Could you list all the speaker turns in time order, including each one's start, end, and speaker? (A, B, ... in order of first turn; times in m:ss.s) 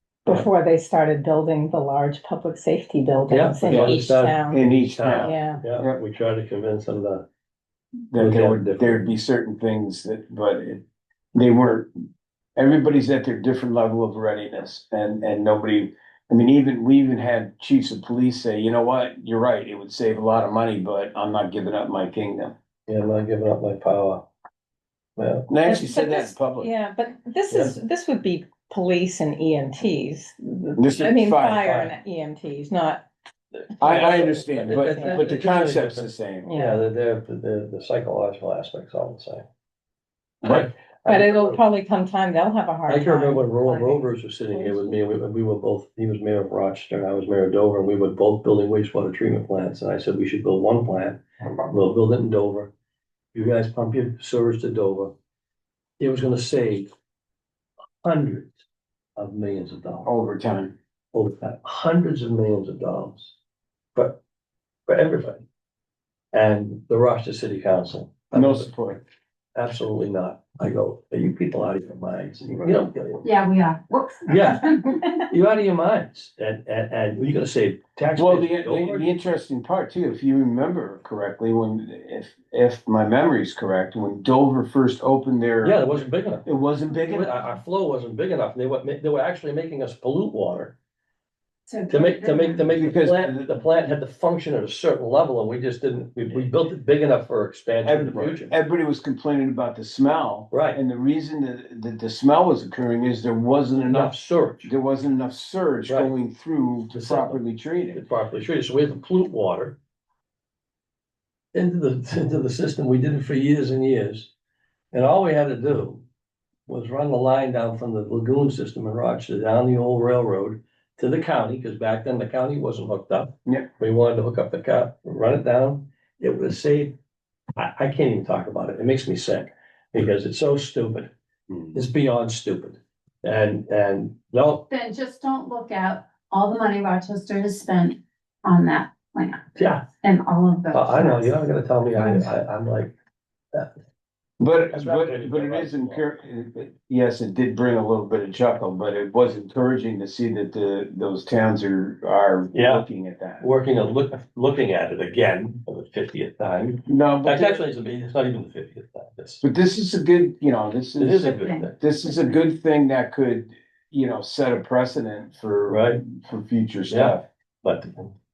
0:00.3-0:04.6 A
0:03.3-0:07.2 B
0:03.7-0:04.0 C
0:04.5-0:06.0 C
0:05.2-0:05.6 A
0:08.1-0:11.9 C
0:08.2-0:09.1 B
0:12.6-0:22.5 C
0:22.9-0:24.3 B
0:25.2-0:25.5 B
0:25.5-0:26.7 C
0:25.6-0:33.1 A
0:30.8-0:31.7 C
0:31.6-0:31.9 B
0:33.7-0:35.5 A
0:33.8-0:36.5 C
0:34.7-0:39.4 B
0:36.4-0:36.8 A
0:40.4-0:40.7 C
0:40.4-0:41.6 B
0:41.0-0:45.0 A
0:42.9-0:52.7 B
0:53.3-0:55.1 B
0:56.0-0:56.9 B
0:58.0-0:58.5 B
0:59.2-1:00.1 B
1:00.1-1:00.7 C
1:01.1-1:03.4 B
1:04.9-1:05.4 B
1:06.3-1:08.8 B
1:08.3-1:09.0 C
1:09.6-1:13.2 B
1:13.2-1:15.0 D
1:14.2-1:19.1 B
1:18.2-1:25.9 C
1:25.6-1:30.8 B
1:26.5-1:27.4 C
1:31.7-1:32.7 D
1:31.9-1:38.5 B
1:32.8-1:33.5 C
1:37.8-1:48.1 C
1:40.5-1:40.8 B
1:43.8-1:44.7 B
1:45.9-1:46.1 B
1:46.9-1:47.4 B
1:47.9-1:49.8 B
1:51.5-1:54.3 B
1:54.9-1:56.0 B
1:56.7-2:07.0 B
2:07.6-2:11.1 B
2:11.5-2:11.8 C
2:11.7-2:14.6 B
2:14.7-2:19.4 D
2:19.6-2:19.9 B
2:20.0-2:21.3 D
2:20.7-2:22.9 B
2:22.0-2:22.2 D
2:24.4-2:33.4 C
2:24.7-2:26.1 B
2:32.5-2:32.9 B
2:33.4-2:39.4 B
2:36.9-2:37.6 C
2:39.4-2:47.2 C
2:41.0-2:41.8 B
2:41.2-2:41.7 D
2:45.7-2:46.0 B
2:46.9-2:48.1 B